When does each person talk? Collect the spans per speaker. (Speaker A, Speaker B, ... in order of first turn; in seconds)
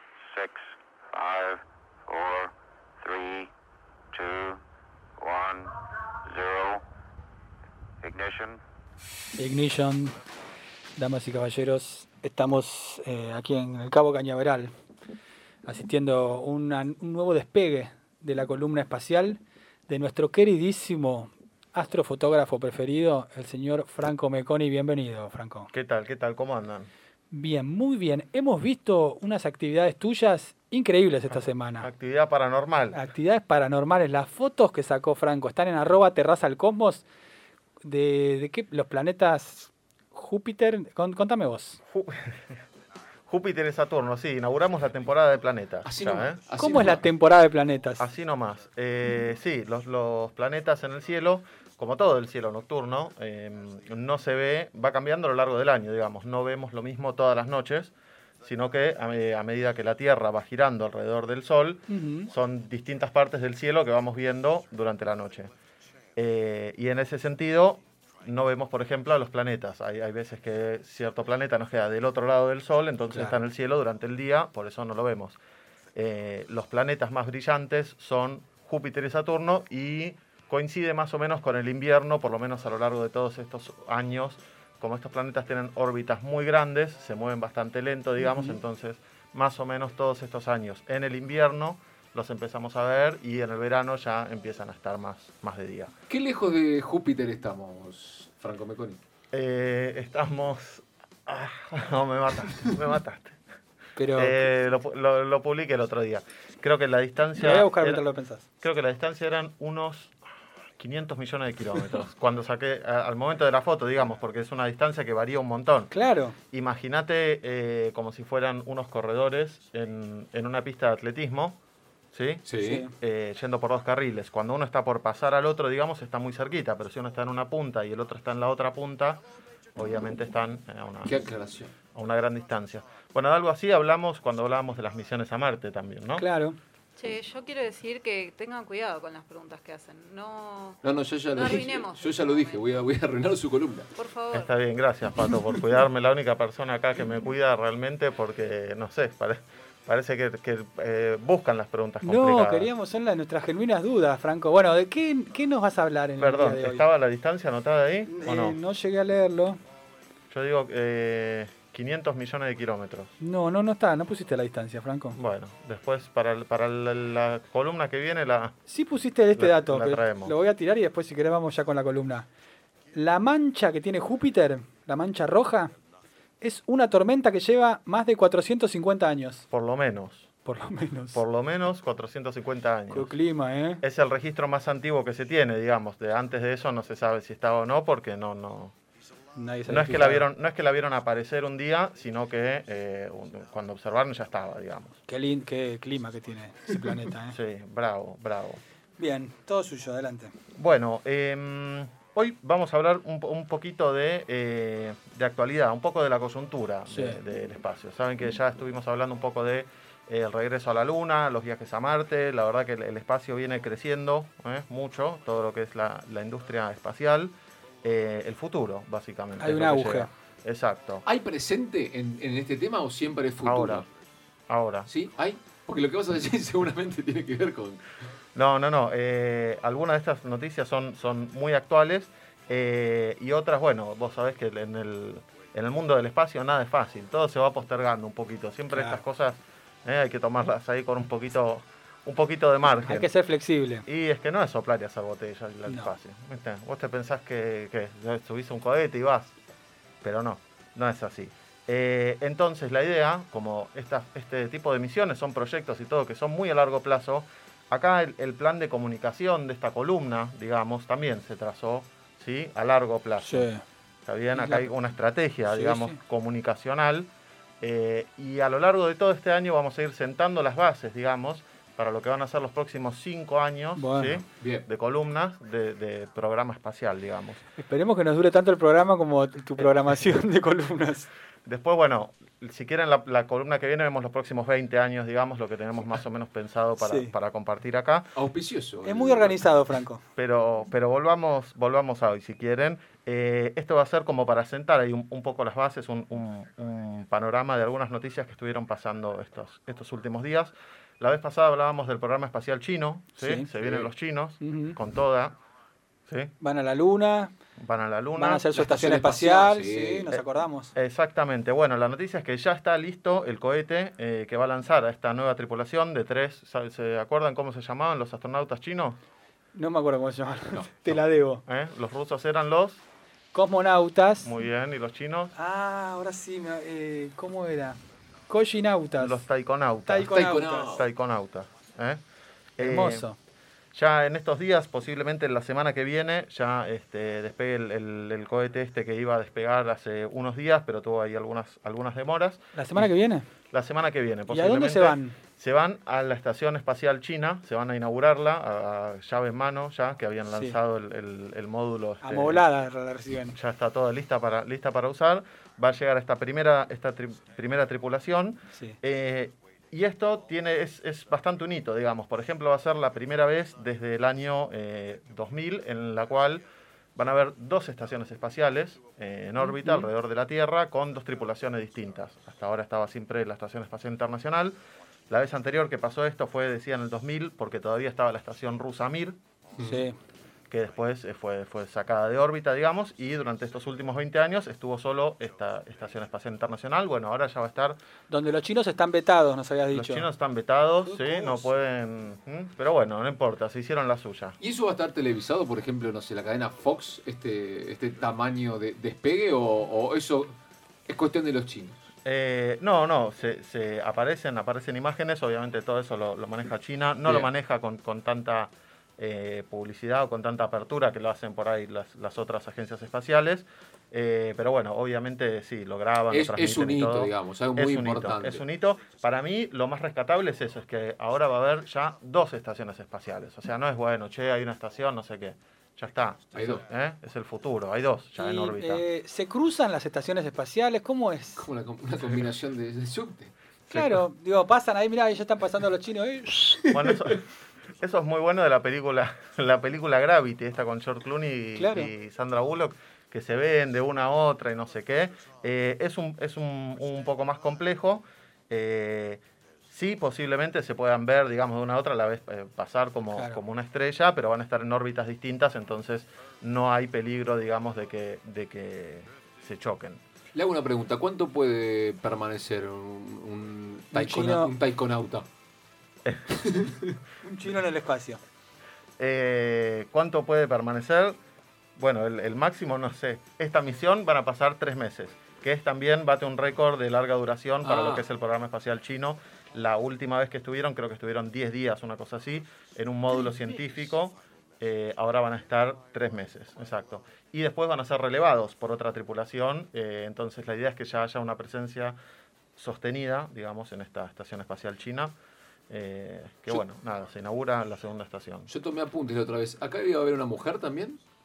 Speaker A: 0.3-0.6, 1.1-3.5, 4.1-4.6, 5.2-6.8, 8.0-8.6
Speaker B: 9.4-10.2, 11.0-14.7, 15.7-25.7, 27.3-31.9, 32.9-37.0, 37.8-41.8, 46.6-48.1, 61.9-62.3, 73.1-73.4, 88.2-88.6, 104.0-104.4, 107.4-108.5, 115.9-116.4, 122.6-122.9, 136.2-136.6, 152.0-156.8, 158.1-159.6, 163.2-165.2, 168.7-172.3, 172.9-175.7, 176.4-179.4, 180.4-181.2, 182.9-183.8, 189.3-190.2, 195.1-197.4, 199.0-200.4, 206.9-207.2, 219.4-220.1, 238.7-239.0, 242.8-243.9, 245.7-245.9, 263.2-263.6, 264.4-264.7, 265.5-266.0, 273.8-274.2, 277.6-281.1, 286.8-287.1, 288.8-290.0, 303.2-303.5, 304.4-304.8, 306.4-307.3, 308.1-310.7, 319.5-321.4, 323.3-324.3, 325.3-329.2, 329.9-330.7, 332.6-333.2, 342.6-343.3, 344.3-345.2, 352.0-353.4, 358.5-358.8, 369.5-369.9, 379.6-379.9, 388.1-390.1, 428.2-431.5, 433.7-436.9, 441.6-441.9, 453.1-453.4, 463.9-464.5, 467.2-468.2
Speaker C: 25.7-26.9, 31.8-33.0, 41.9-42.6, 43.3-46.4, 48.0-65.5, 66.2-75.4, 76.0-95.9, 99.3-103.4, 104.2-108.0, 108.6-110.2, 110.8-115.9, 116.5-121.6, 122.1-129.2, 129.8-131.2, 131.9-136.3, 144.3-152.7, 156.2-158.6, 160.3-163.1, 165.1-168.6, 169.3-170.3, 179.5-180.3, 181.1-183.1, 183.8-188.7, 189.7-195.0, 197.3-198.6, 200.6-221.0, 223.4-223.9, 224.5-224.9, 228.3-243.1, 243.9-249.4, 250.0-263.5, 264.1-267.1, 267.6-277.4, 281.5-288.1, 290.2-305.4, 306.1-306.3, 307.6-308.5, 310.1-319.0, 321.5-322.8, 324.2-325.3, 329.0-332.0, 332.6-333.1, 333.7-342.9, 343.5-352.4, 353.4-366.4, 367.0-374.6, 375.1-379.2, 380.5-387.8, 389.7-394.4, 402.1-428.8, 433.7-434.0, 436.7-437.3, 437.8-460.0, 466.1-466.4, 469.0-471.2, 471.8-492.0, 492.6-495.1, 495.7-498.5
Speaker D: 45.9-47.1, 96.1-99.0, 122.5-122.9, 131.1-131.7, 140.8-143.9, 145.2-145.4, 221.0-223.9, 224.9-227.8, 274.4-274.7, 288.1-289.4, 303.6-303.9, 308.6-310.1, 330.1-330.9, 379.6-379.9, 391.1-391.4, 394.4-400.4, 400.9-401.8, 407.1-407.3, 416.1-418.4, 426.3-426.6, 431.4-433.3, 460.3-465.3, 466.4-467.0, 477.6-478.1, 498.5-501.0
Speaker E: 137.0-140.8, 141.4-142.6, 144.0-144.5